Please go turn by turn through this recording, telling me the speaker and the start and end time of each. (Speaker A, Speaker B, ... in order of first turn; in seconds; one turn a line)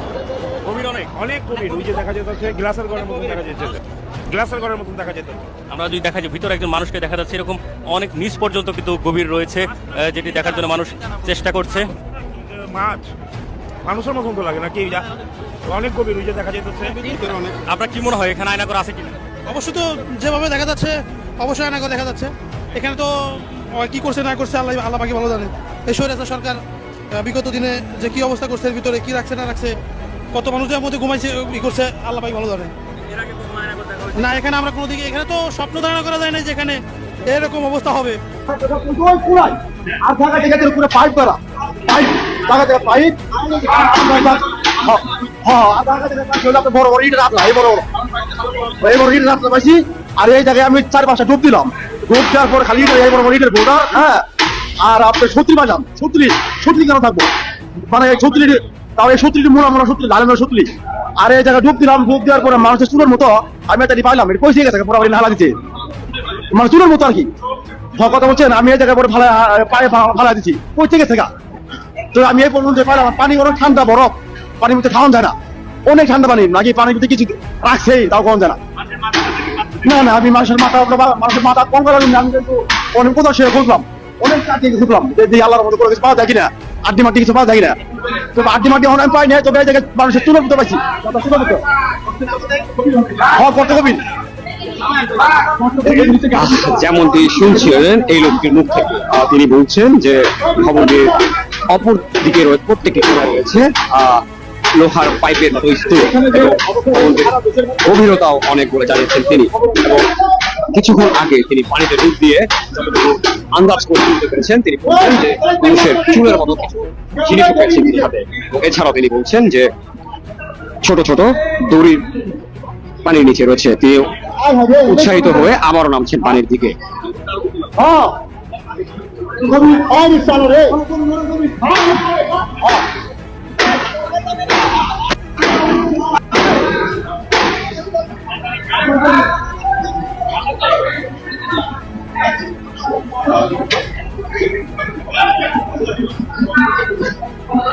Speaker A: 0.6-1.1
Speaker B: 1.1-5.5
Speaker A: 5.7-11.8
Speaker B: 12.2-13.1
Speaker B: 13.8-15.1
Speaker B: 15.7-17.1
Speaker A: 17.7-19.2
Speaker C: 19.5-26.6
Speaker C: 27.1-29.8
Speaker C: 30.3-32.7
Speaker C: 34.1-38.2
Speaker D: 38.5-47.8
Speaker D: 48.8-54.2
Speaker D: 54.8-57.3
Speaker D: 57.9-60.7
Speaker D: 61.2-65.5
Speaker D: 66.5-67.3
Speaker D: 68.0-71.3
Speaker D: 72.1-75.3
Speaker D: 75.8-78.6
Speaker D: 79.8-87.8
Speaker D: 88.3-91.6
Speaker D: 93.2-94.0
Speaker E: 96.2-101.1
Speaker E: 101.7-104.2
Speaker E: 104.8-107.3
Speaker D: 106.3-107.8
Speaker E: 107.8-110.0
Speaker E: 110.7-119.7
Speaker E: 120.8-122.0
Speaker E: 123.0-124.1
Speaker D: 124.4-124.8
Speaker E: 124.8-126.8
Speaker D: 127.8-128.1
Speaker D: 129.4-132.8